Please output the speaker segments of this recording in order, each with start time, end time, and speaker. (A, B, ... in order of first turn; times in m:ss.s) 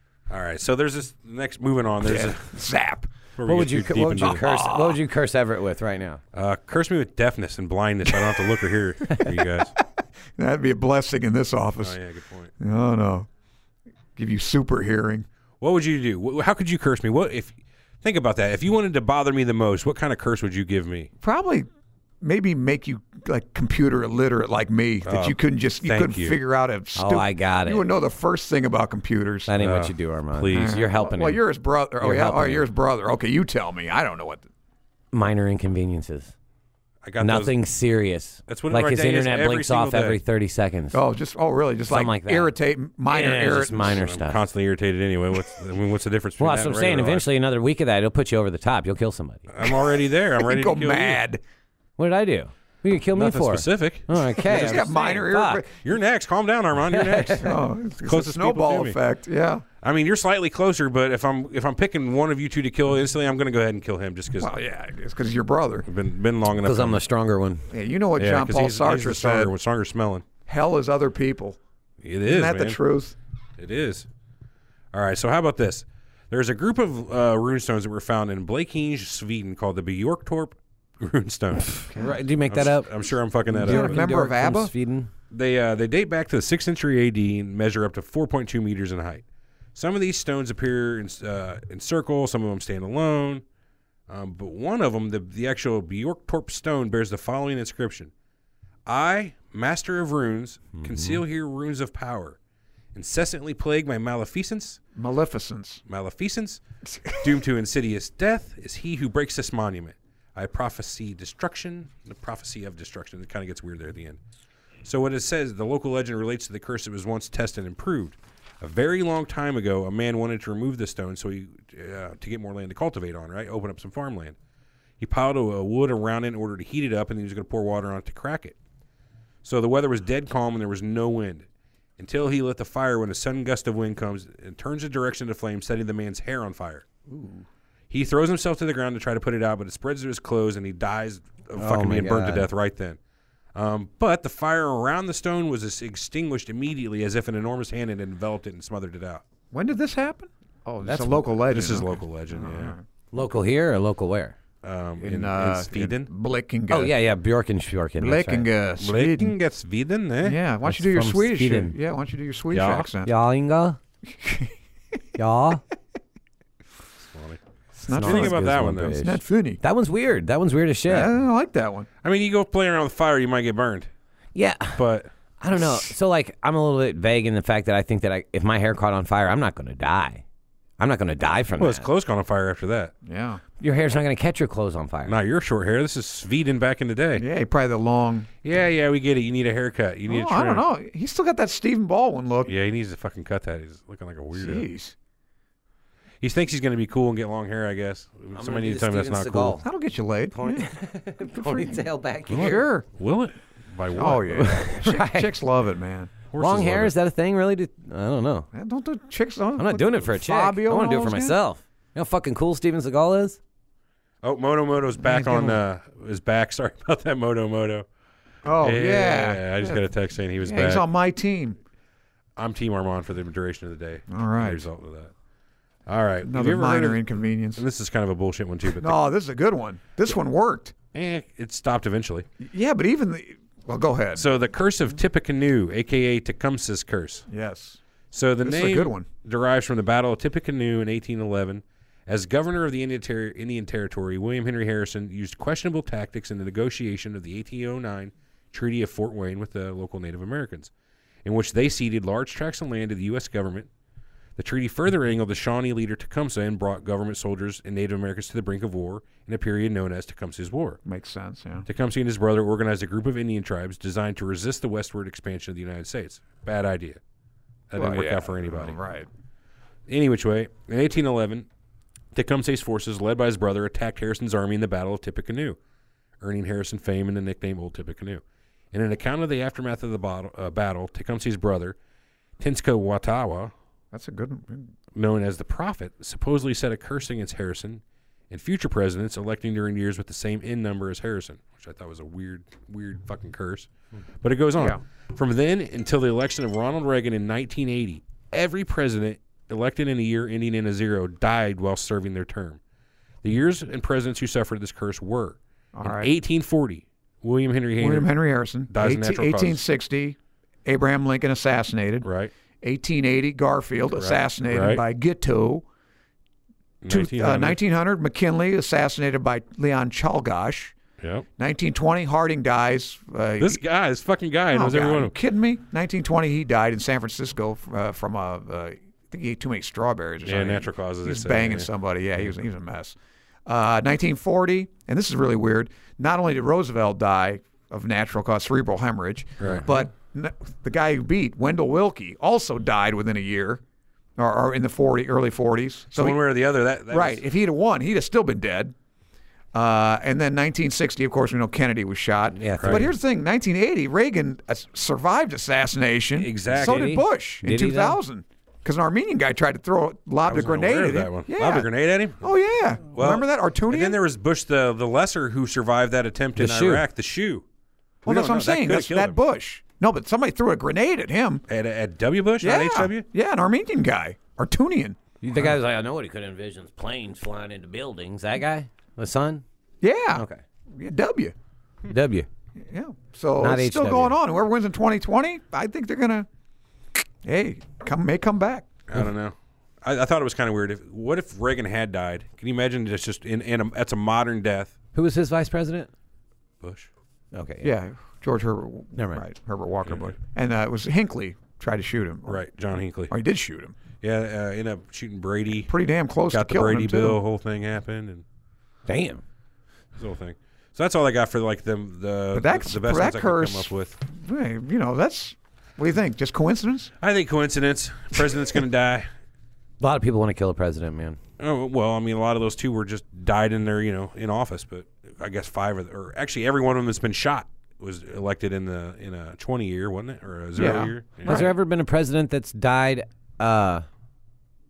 0:00.3-0:02.5 A
0:02.0-0:03.1 B
0:03.4-0:04.4 A
0:03.4-0:06.2 C
0:04.2-0:05.0 B
0:06.3-0:09.8 A
0:08.1-0:08.5 B
0:10.4-0:12.0 B
0:11.8-0:12.5 A
0:12.6-0:13.3 B
0:14.2-0:15.3 B
0:15.6-0:21.1 A
0:21.2-0:21.7 B
0:22.2-0:29.5 B
0:25.0-0:26.4 A
0:27.0-0:27.9 C
0:29.5-0:31.4 C
0:29.6-0:30.8 A
0:30.5-0:34.5 B
0:32.0-0:32.6 C
0:35.1-0:36.3 C
0:37.0-0:37.6 A
0:37.2-0:41.0 C
0:38.5-0:40.2 A
0:40.9-0:44.0 B
0:41.9-0:42.5 C
0:43.1-0:44.4 C
0:43.7-0:47.3 A
0:46.4-0:49.4 C
0:49.5-0:51.2 A
0:49.6-0:51.4 B
0:52.0-0:55.6 C
0:53.1-0:54.9 A
0:54.4-0:55.8 B
0:55.8-0:59.0 A
0:56.9-0:57.5 C
0:57.4-0:59.6 B
0:59.8-1:04.5 A
1:04.4-1:05.9 B
1:05.9-1:07.0 A
1:06.6-1:07.6 C
1:07.7-1:09.5 B
1:08.2-1:10.2 A
1:10.5-1:11.6 B
1:12.0-1:12.8 A
1:12.2-1:13.1 B
1:13.6-1:14.1 A
1:14.9-1:21.9 A
1:21.8-1:22.9 C
1:21.9-1:22.2 B
1:22.5-1:24.0 A
1:23.5-1:25.1 C
1:23.6-1:24.7 B
1:25.3-1:29.2 A
1:29.8-1:33.4 A
1:34.1-1:38.1 A
1:38.9-1:42.4 A
1:40.8-1:41.2 C
1:43.0-1:44.8 A
1:45.0-1:45.8 B
1:45.9-1:54.2 A
1:54.8-2:04.4 A
2:05.0-2:08.6 A
2:09.4-2:11.5 A
2:12.0-2:16.9 A
2:17.1-2:17.4 B
2:17.9-2:23.0 A
2:21.6-2:22.5 C
2:23.6-2:29.2 A
2:29.5-2:32.8 B
2:30.8-2:31.2 C
2:31.5-2:32.8 A
2:33.1-2:34.4 C
2:34.6-2:36.1 A
2:35.0-2:37.0 B
2:36.7-2:38.5 C
2:38.0-2:39.4 B
2:38.8-2:40.4 A
2:40.2-2:43.1 B
2:40.6-2:41.8 C
2:42.5-2:42.9 A
2:43.0-2:43.8 C
2:44.1-2:44.5 B
2:45.2-2:45.6 C
2:47.1-2:47.4 A
2:47.8-2:48.4 B
2:47.9-2:51.1 C
2:48.0-2:49.0 A
2:49.0-2:49.6 B
2:50.9-2:51.9 B
2:52.0-2:53.9 A
2:54.4-2:54.8 C
2:54.8-2:55.1 A
2:55.4-3:00.2 C
3:00.8-3:01.9 C
3:01.6-3:02.9 A
3:03.0-3:03.4 B
3:03.6-3:05.2 C
3:05.1-3:07.2 A
3:07.2-3:08.3 B
3:08.4-3:10.6 A
3:10.1-3:12.5 B
3:12.4-3:14.7 A
3:14.3-3:15.0 B
3:16.2-3:19.6 A
3:18.4-3:19.6 C
3:19.6-3:20.7 B
3:20.3-3:22.6 C
3:21.3-3:22.9 B
3:22.3-3:24.6 A
3:23.9-3:26.1 B
3:24.4-3:25.3 C
3:26.3-3:26.9 A
3:26.4-3:28.5 C
3:28.5-3:31.4 B
3:29.6-3:33.4 C
3:34.2-3:37.9 A
3:35.0-3:35.6 B
3:38.4-3:39.8 B
3:38.6-3:40.8 A
3:40.4-3:41.6 B
3:42.4-3:45.1 A
3:44.1-3:44.7 B
3:45.9-3:47.0 A
3:46.2-3:47.6 B
3:47.6-3:49.0 A
3:48.8-3:50.8 B
3:50.9-3:52.3 A
3:52.4-3:54.3 B
3:54.2-3:57.3 A
3:57.3-3:57.8 B
3:58.1-4:10.7 A
3:58.4-3:59.1 B
4:11.2-4:13.7 A
4:14.4-4:20.8 A
4:20.9-4:21.7 B
4:21.7-4:27.0 A
4:27.7-4:28.8 A
4:27.8-4:29.1 B
4:29.9-4:31.5 A
4:32.1-4:35.6 A
4:36.2-4:41.8 A
4:42.4-4:43.5 A
4:43.9-4:44.7 B
4:45.0-4:53.7 A
4:54.2-5:02.6 A
5:03.2-5:08.1 A
5:05.8-5:06.1 B
5:07.8-5:12.1 B
5:08.7-5:09.6 A
5:12.0-5:12.3 A
5:12.6-5:15.6 B
5:14.0-5:14.8 A
5:16.8-5:17.6 A
5:16.9-5:20.8 B
5:21.0-5:21.3 A
5:21.4-5:23.6 B
5:23.4-5:25.1 A
5:24.5-5:43.6 B
5:30.2-5:31.7 A
5:39.4-5:39.7 A
5:44.2-5:46.2 B
5:45.9-5:47.2 A
5:46.9-5:48.8 B
5:49.5-6:01.7 B
5:52.3-5:52.9 C
5:52.6-5:52.9 A
5:56.2-5:57.0 A
5:56.5-5:58.0 C
6:00.3-6:02.3 A
6:02.2-6:04.0 B
6:02.9-6:07.4 A
6:06.4-6:06.8 C
6:08.0-6:09.2 A
6:08.1-6:11.4 B
6:11.5-6:13.1 A
6:12.4-6:15.0 B
6:15.2-6:19.4 C
6:19.8-6:21.4 B
6:20.1-6:20.4 C
6:21.9-6:22.3 C
6:22.6-6:26.3 B
6:23.4-6:24.2 C
6:27.2-6:28.7 B
6:28.9-6:34.7 A
6:35.0-6:35.9 C
6:36.6-6:36.9 A
6:37.3-6:37.7 C
6:37.6-6:42.4 B
6:39.0-6:39.2 C
6:42.3-6:43.1 A
6:43.1-6:43.8 B
6:44.0-6:45.7 A
6:45.7-6:47.2 B
6:46.3-6:48.2 A
6:48.9-6:49.2 C
6:50.0-6:54.0 A
6:52.3-6:56.9 B
6:57.0-6:59.1 A
6:59.8-7:01.2 C
7:01.4-7:11.4 A
7:10.6-7:11.5 B
7:11.2-7:13.9 C